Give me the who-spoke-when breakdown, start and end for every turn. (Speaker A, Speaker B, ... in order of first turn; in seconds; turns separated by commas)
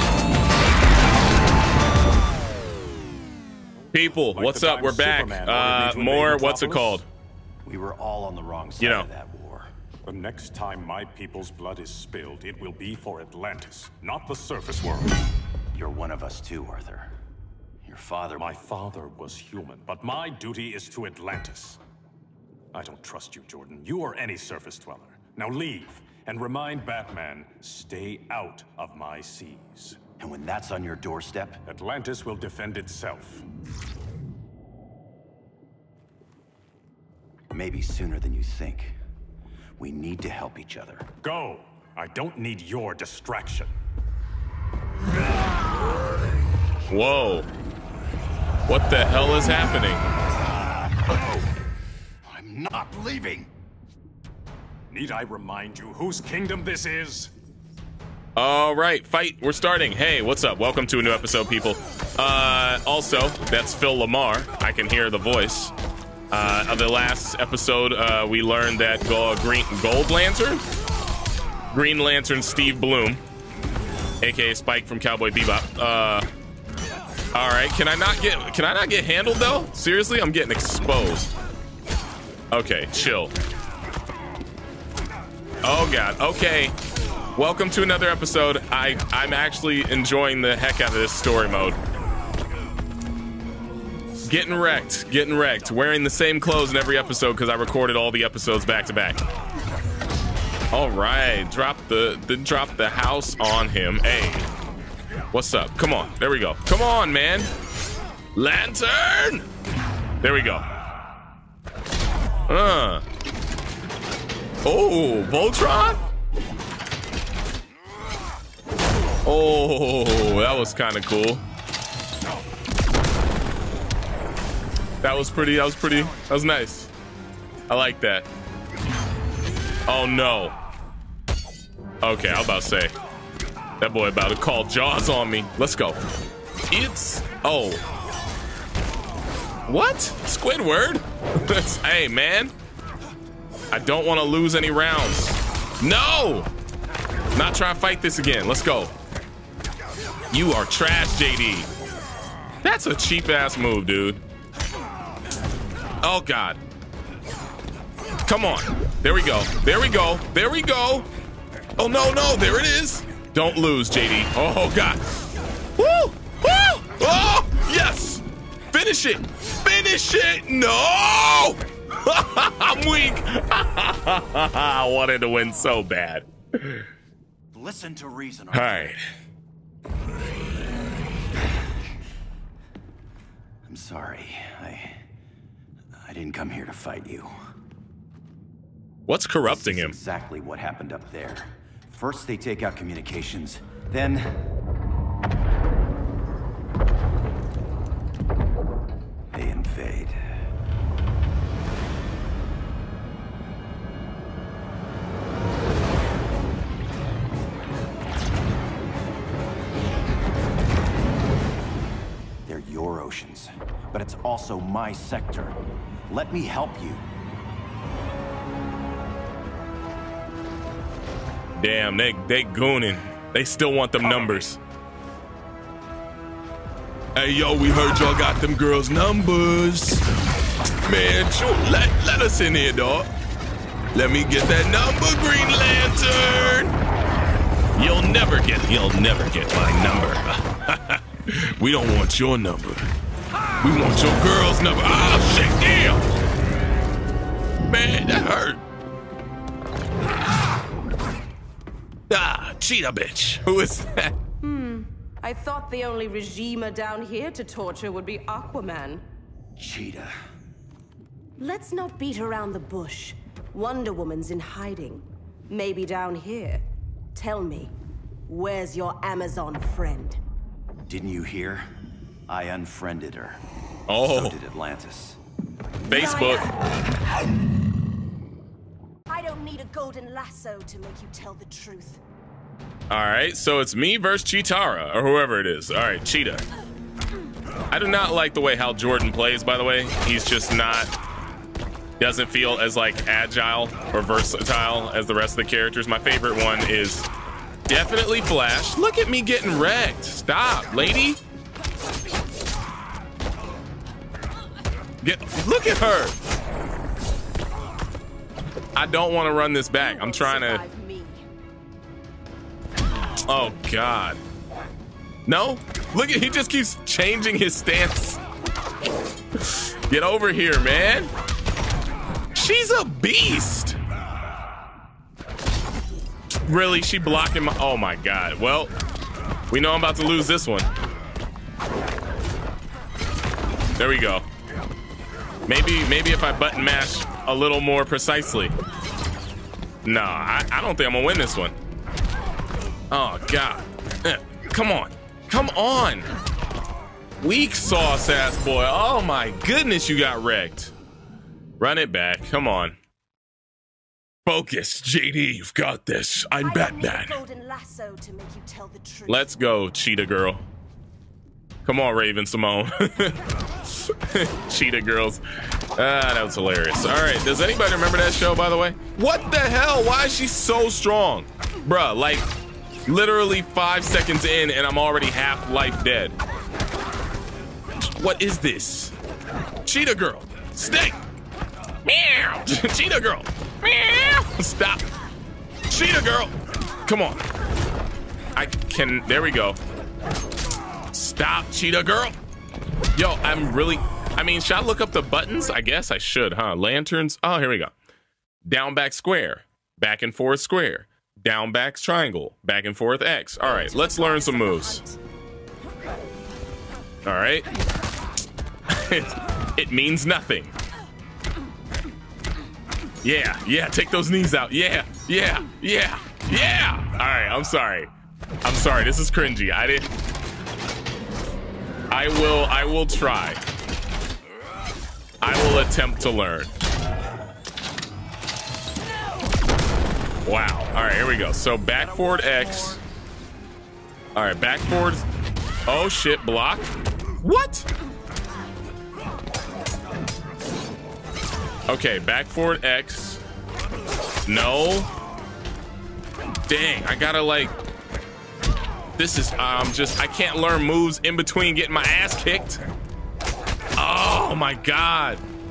Speaker A: 3.9-7.1, Speaker B: 4.0-7.0, Speaker C: 7.6-9.7, Speaker A: 8.8-9.1, Speaker B: 10.1-15.2, Speaker C: 15.7-17.1, Speaker C: 17.8-18.5, Speaker B: 18.4-21.8, Speaker B: 22.7-30.0, Speaker C: 30.2-31.6, Speaker B: 31.7-33.5, Speaker C: 37.5-39.0, Speaker C: 39.8-41.1, Speaker B: 41.2-43.7, Speaker A: 46.9-47.5, Speaker A: 48.7-50.0, Speaker C: 51.0-51.4, Speaker C: 52.2-53.5, Speaker B: 54.9-57.3, Speaker A: 58.4-65.7, Speaker A: 66.3-70.6, Speaker A: 71.7-73.2, Speaker A: 74.2-76.3, Speaker A: 77.3-81.3, Speaker A: 82.5-83.3, Speaker A: 85.6-86.8, Speaker A: 87.4-91.8, Speaker A: 94.2-99.2, Speaker A: 100.7-104.5, Speaker A: 105.3-107.5, Speaker A: 108.3-109.5, Speaker A: 110.2-110.7, Speaker A: 112.5-113.0, Speaker A: 114.7-116.0, Speaker A: 119.2-121.4, Speaker A: 125.0-126.9, Speaker A: 127.7-128.3, Speaker A: 129.9-130.6, Speaker A: 132.0-132.9, Speaker A: 133.8-136.0, Speaker A: 136.7-137.8, Speaker A: 139.7-142.5, Speaker A: 143.7-146.5, Speaker A: 147.3-148.9, Speaker A: 150.3-151.7, Speaker A: 152.6-154.2, Speaker A: 156.0-156.6, Speaker A: 158.3-161.1, Speaker A: 161.8-165.1, Speaker A: 165.8-176.9, Speaker C: 177.5-178.9, Speaker A: 178.5-179.0, Speaker C: 183.7-185.0, Speaker C: 186.0-187.3, Speaker A: 189.1-189.9, Speaker C: 189.5-194.4, Speaker C: 199.3-200.2, Speaker C: 212.5-217.1, Speaker A: 221.6-224.6, Speaker A: 227.2-230.0, Speaker A: 230.8-233.1, Speaker A: 233.9-236.8, Speaker A: 237.8-242.9, Speaker A: 243.6-246.1, Speaker A: 247.7-248.6, Speaker A: 252.1-254.2, Speaker D: 254.4-259.0, Speaker C: 259.6-260.1, Speaker D: 261.4-266.6, Speaker D: 267.1-267.7, Speaker D: 268.3-270.2, Speaker C: 270.9-271.7, Speaker C: 272.3-273.4, Speaker A: 273.9-274.4, Speaker C: 274.0-275.2, Speaker A: 275.9-276.5, Speaker D: 275.9-276.5, Speaker D: 279.1-282.0, Speaker A: 282.9-286.4, Speaker A: 287.7-290.9, Speaker A: 292.0-297.1, Speaker A: 297.7-301.2, Speaker A: 305.0-306.2, Speaker A: 308.8-310.6, Speaker D: 309.7-311.3, Speaker A: 313.2-314.2, Speaker A: 315.3-318.2, Speaker A: 319.4-321.1, Speaker A: 322.3-323.8, Speaker A: 326.5-328.7, Speaker A: 329.5-330.7, Speaker A: 333.8-334.3, Speaker A: 335.5-338.6, Speaker A: 339.9-341.6, Speaker A: 342.9-346.1, Speaker A: 347.2-350.7, Speaker A: 351.6-352.8, Speaker A: 354.3-357.2, Speaker D: 356.4-359.3, Speaker A: 359.1-360.4, Speaker A: 361.6-365.2, Speaker A: 365.8-372.3, Speaker A: 372.9-376.1, Speaker A: 378.0-378.9, Speaker A: 379.6-381.0, Speaker A: 381.9-384.9, Speaker A: 385.7-386.3, Speaker A: 386.9-387.2, Speaker A: 388.4-389.6, Speaker A: 390.9-392.2, Speaker A: 392.9-397.7, Speaker A: 398.5-404.8, Speaker D: 403.4-405.0, Speaker A: 407.1-407.5, Speaker A: 408.7-410.5, Speaker A: 413.0-417.9, Speaker A: 418.4-419.9, Speaker A: 421.9-423.4, Speaker A: 425.2-426.5, Speaker A: 430.2-432.8, Speaker C: 431.8-432.8, Speaker A: 434.1-435.1, Speaker A: 435.7-436.6, Speaker A: 437.2-437.7, Speaker A: 441.7-443.2, Speaker A: 444.3-444.9, Speaker A: 446.5-447.6, Speaker A: 449.0-452.6, Speaker A: 453.8-455.2